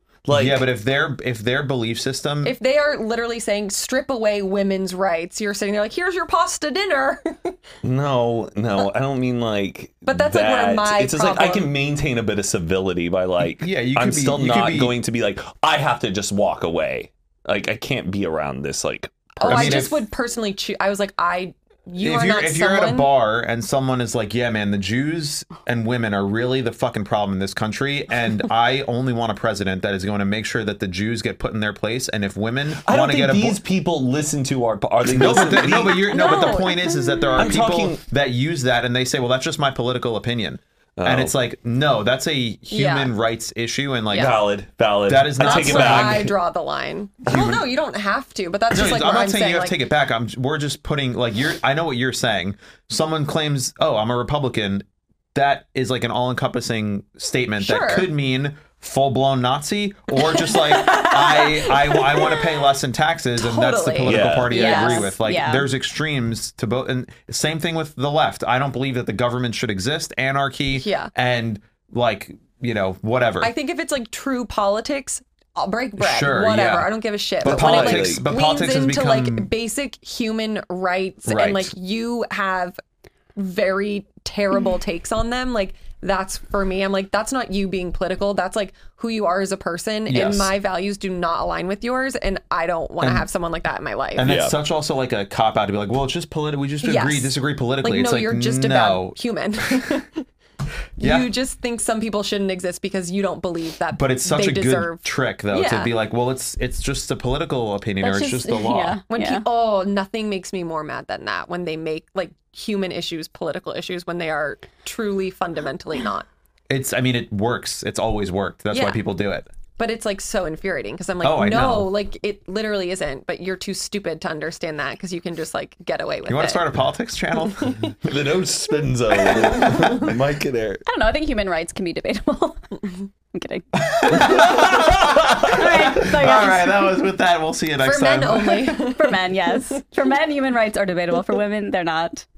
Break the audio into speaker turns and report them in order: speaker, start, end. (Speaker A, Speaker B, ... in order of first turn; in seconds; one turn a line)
Speaker A: 0.3-0.7
Speaker B: 0.3-2.5
Speaker C: 2.4-7.6
Speaker A: 7.8-19.9
Speaker C: 10.1-11.7
Speaker B: 13.6-14.9
Speaker C: 19.4-23.1
Speaker B: 19.4-20.0
Speaker B: 22.0-33.6
Speaker A: 32.8-36.2
Speaker B: 35.0-44.4
Speaker D: 36.0-37.3
Speaker C: 36.1-36.7
Speaker A: 37.4-38.0
Speaker A: 41.0-41.3
Speaker C: 42.7-43.1
Speaker A: 44.1-46.4
Speaker B: 45.1-46.3
Speaker C: 45.4-49.8
Speaker A: 47.2-47.7
Speaker B: 48.7-73.5
Speaker C: 57.6-58.1
Speaker C: 60.2-62.6
Speaker C: 63.4-65.1
Speaker A: 64.0-64.5
Speaker D: 64.5-65.7
Speaker C: 70.8-71.1
Speaker C: 73.4-82.8
Speaker B: 76.0-79.5
Speaker A: 77.4-78.2
Speaker B: 81.3-81.7
Speaker C: 83.4-94.3
Speaker B: 90.1-90.5
Speaker B: 93.0-93.3
Speaker B: 94.2-99.2
Speaker A: 94.2-94.5
Speaker C: 96.8-100.3
Speaker B: 101.0-101.3
Speaker C: 101.0-105.9
Speaker B: 103.9-109.0
Speaker D: 108.0-109.5
Speaker C: 109.1-116.3
Speaker B: 116.7-119.5
Speaker C: 118.7-119.0
Speaker C: 119.8-126.6
Speaker B: 121.2-121.9
Speaker B: 126.3-127.8
Speaker C: 127.4-127.9
Speaker A: 128.0-130.8
Speaker C: 129.2-130.2
Speaker B: 129.5-129.9
Speaker D: 130.9-136.9
Speaker B: 133.8-138.8
Speaker C: 137.8-139.3
Speaker D: 138.8-142.3